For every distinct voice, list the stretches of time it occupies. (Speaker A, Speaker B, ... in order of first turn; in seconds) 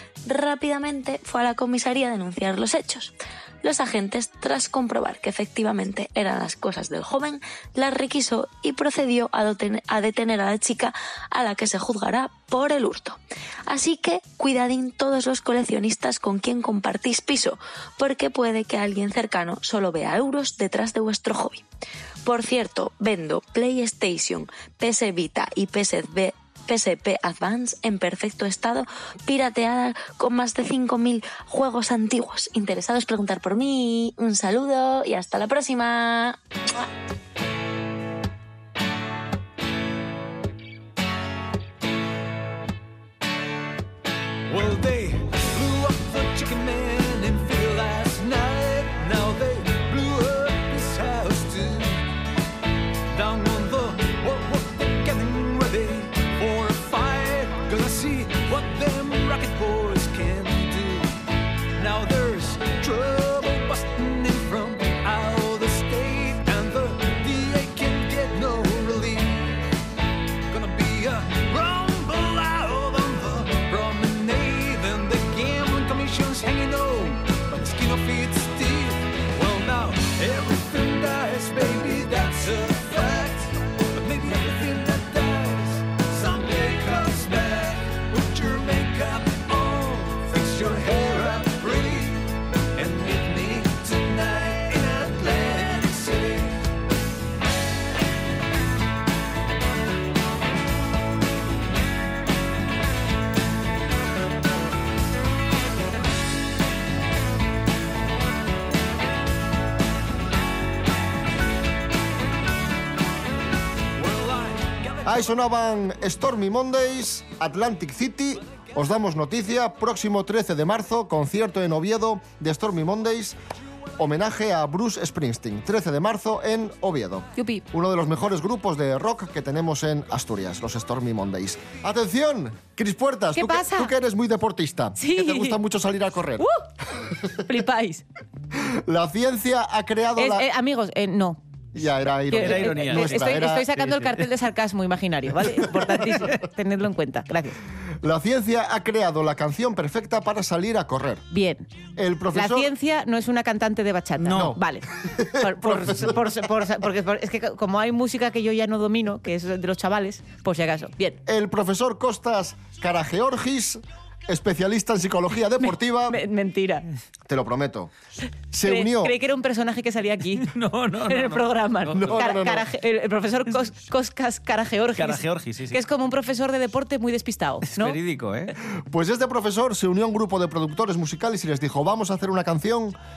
Speaker A: 0.2-21.6, 22.2-36.9
Speaker B: 44.5-52.0, 53.1-61.2, 61.8-69.6, 70.5-96.6, 114.0-115.2
Speaker C: 115.0-123.4, 124.0-136.5, 138.9-140.4, 141.7-143.7, 148.0-151.2, 151.9-152.7, 154.2-156.2, 161.2-166.2, 167.3-167.9, 168.5-169.1, 171.9-172.6, 178.9-182.9
Speaker D: 133.3-133.9, 135.0-135.6, 136.4-136.7, 137.4-138.0, 140.2-141.4, 142.3-147.6, 151.3-151.7, 152.3-154.9, 155.4-161.2, 165.6-166.9, 168.6-170.5, 171.1-178.0
Speaker E: 142.3-144.2, 154.2-154.5, 170.4-172.2, 174.9-175.8, 177.7-178.5